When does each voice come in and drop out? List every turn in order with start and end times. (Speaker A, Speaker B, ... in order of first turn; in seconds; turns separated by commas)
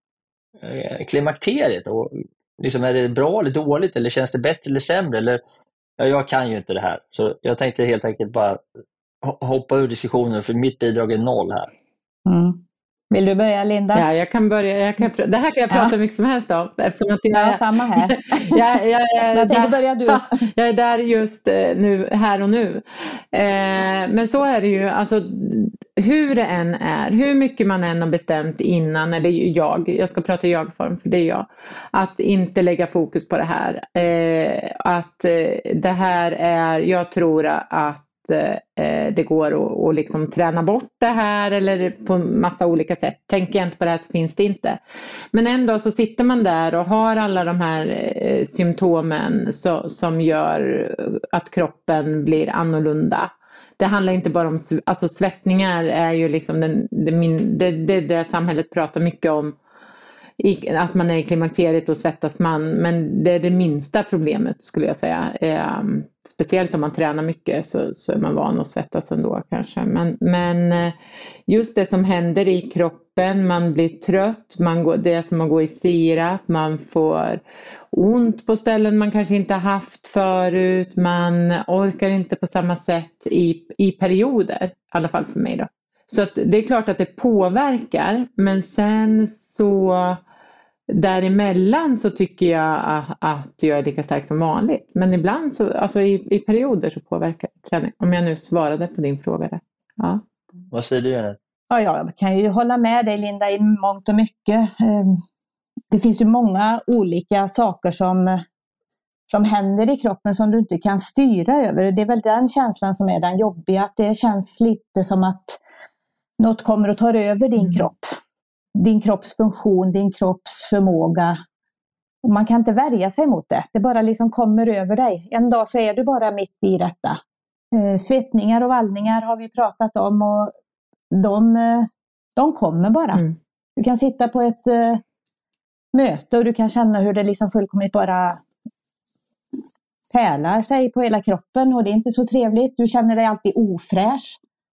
Speaker A: 0.6-5.4, Speaker A: 6.0-8.6, Speaker A: 9.2-11.7, Speaker B: 12.2-14.0, Speaker C: 14.0-17.6, Speaker B: 17.3-18.6, Speaker C: 18.5-44.8, Speaker B: 19.4-20.2, Speaker C: 45.3-59.5, Speaker C: 60.4-71.0, Speaker C: 71.5-90.2, Speaker C: 90.9-100.2, Speaker A: 100.7-101.4, Speaker B: 101.7-105.2, Speaker B: 105.9-108.4, Speaker B: 109.3-115.6, Speaker B: 116.4-118.2, Speaker B: 118.8-121.4, Speaker B: 122.2-127.2, Speaker B: 127.7-130.5, Speaker B: 131.1-133.2, Speaker B: 133.8-135.0, Speaker B: 135.9-138.4, Speaker B: 140.1-144.4